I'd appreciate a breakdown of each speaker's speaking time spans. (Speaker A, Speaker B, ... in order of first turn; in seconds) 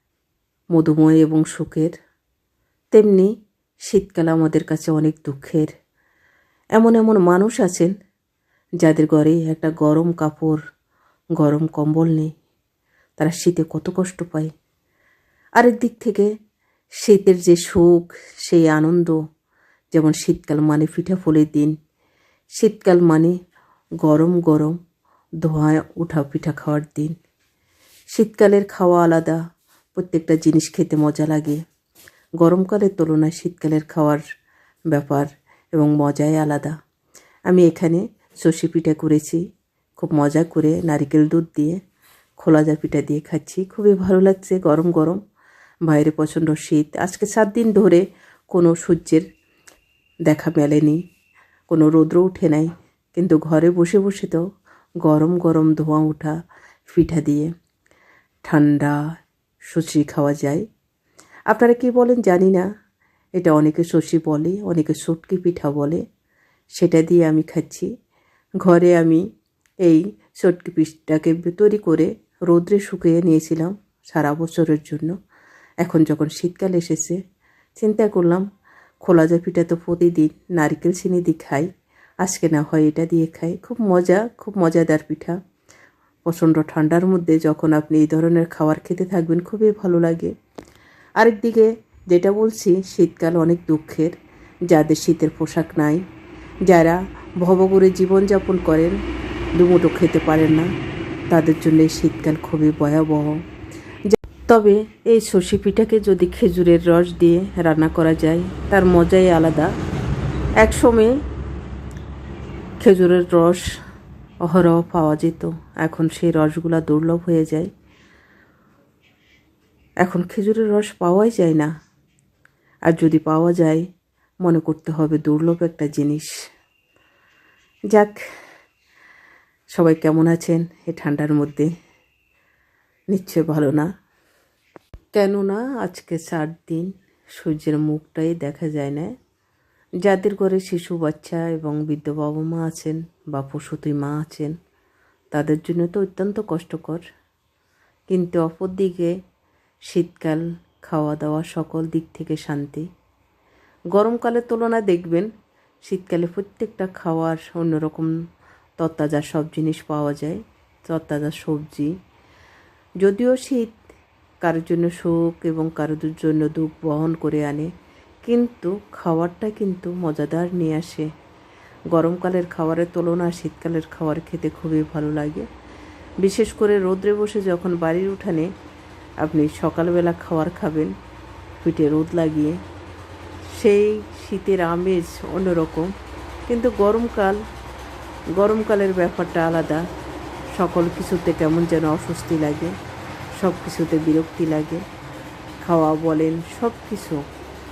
Speaker A: 0.7-1.9, 2.9-3.3, 3.9-5.7, 6.8-7.9, 8.8-10.6, 11.4-12.3, 13.2-14.5, 15.6-16.3, 17.0-19.2, 19.9-21.8, 22.6-23.4, 24.0-24.8, 25.4-27.1, 28.1-29.4, 30.0-31.6, 32.4-34.2, 34.9-36.8, 37.5-39.4, 40.0-41.8, 42.4-45.2, 45.9-49.2, 50.3-51.0, 51.7-54.4, 55.0-56.4, 56.9-57.5, 58.5-59.0, 59.7-60.6, 61.5-62.7, 63.4-66.0, 66.8-67.9, 68.6-69.2, 69.8-75.2, 75.8-77.2, 77.8-78.5, 79.0-81.7, 82.2-85.4, 86.3-90.3, 91.2-94.2, 94.7-96.0, 96.7-99.0, 99.6-100.7, 101.3-103.4, 104.1-109.7, 110.6-111.1, 112.8-113.7, 114.5-117.7, 120.0-121.7, 122.9-123.8, 124.4-126.3, 127.9-128.2, 129.8-131.7, 133.1-133.9, 135.2-139.1, 140.1-144.6, 145.3-147.0, 148.1-149.1, 149.9-152.9, 153.9-155.3, 155.9-158.1, 158.8-161.9, 163.0-163.7, 164.4-167.7, 168.3-171.1, 171.9-175.4, 176.2-178.5, 179.2-180.9, 181.6-182.6, 183.6-185.9, 186.5-187.4, 188.4-189.8, 190.6-192.7, 193.4-194.8, 195.6-197.2